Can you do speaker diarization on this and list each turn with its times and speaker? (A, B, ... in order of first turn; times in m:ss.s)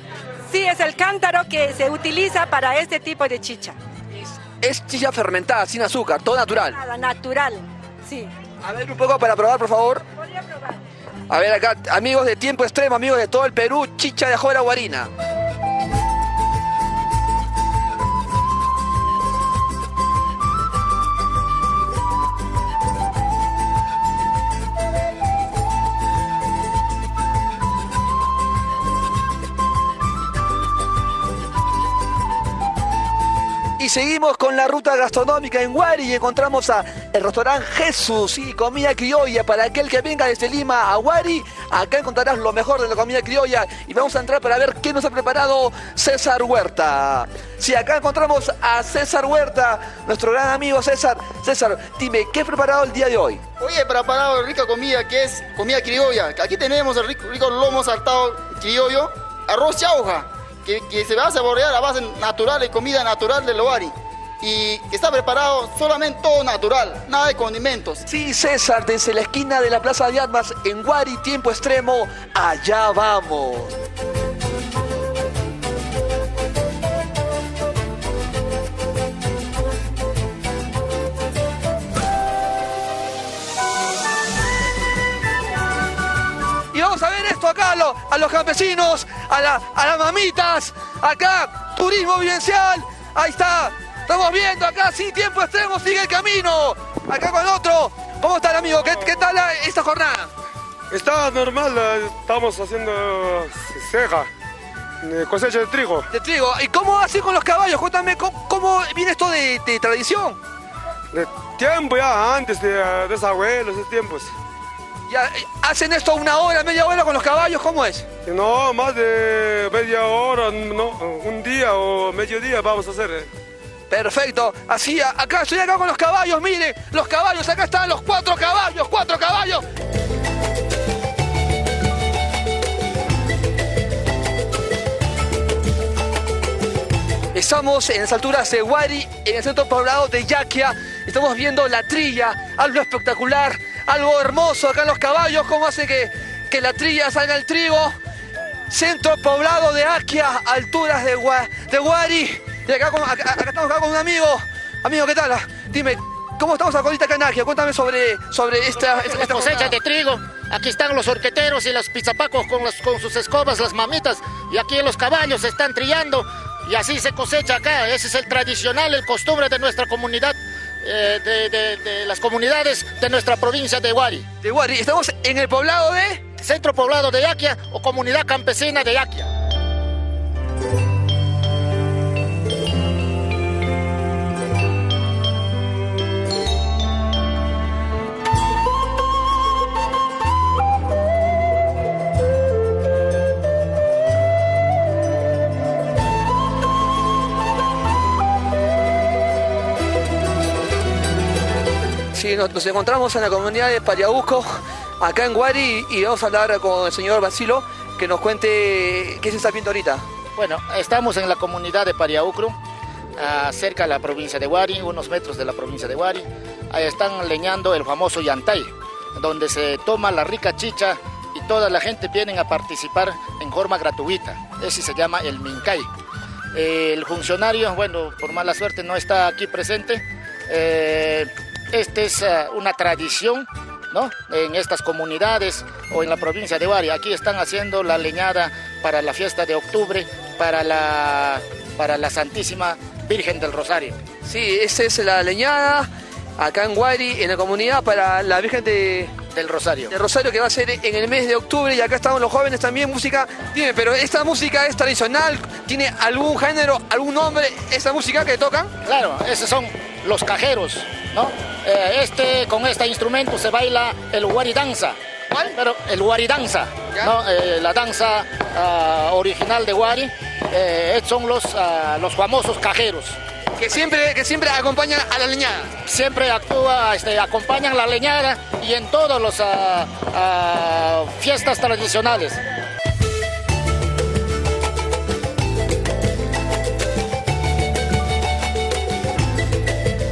0:00.5-0:03.8 A
0:04.2-0:06.8 B
0:06.6-0:08.3 A
0:08.6-0:10.0 B
0:10.2-0:10.8 A
0:11.3-0:15.1 B
0:33.8-0:53.4 B
0:53.6-1:08.0 C
1:08.1-1:13.7 B
1:26.7-1:40.3 B
1:40.9-1:44.3 D
1:45.0-1:46.1 D
1:46.1-1:50.4 B
1:51.1-1:54.3 D
1:55.1-1:58.1 B
1:58.3-2:03.3 D
2:03.9-2:09.7 B
2:17.3-2:28.0 B
2:28.7-2:39.8 B
2:38.8-2:54.3 E
2:54.4-2:56.2 B
2:56.4-2:59.3 E
3:22.1-3:30.0 B
3:30.4-3:32.6 E
3:33.2-3:45.9 E
3:46.5-4:04.0 E
4:04.2-4:09.2 B
4:09.3-4:09.9 E
4:09.9-4:18.7 B
4:18.8-4:33.2 E
4:33.6-4:35.8 B
4:35.8-4:42.4 E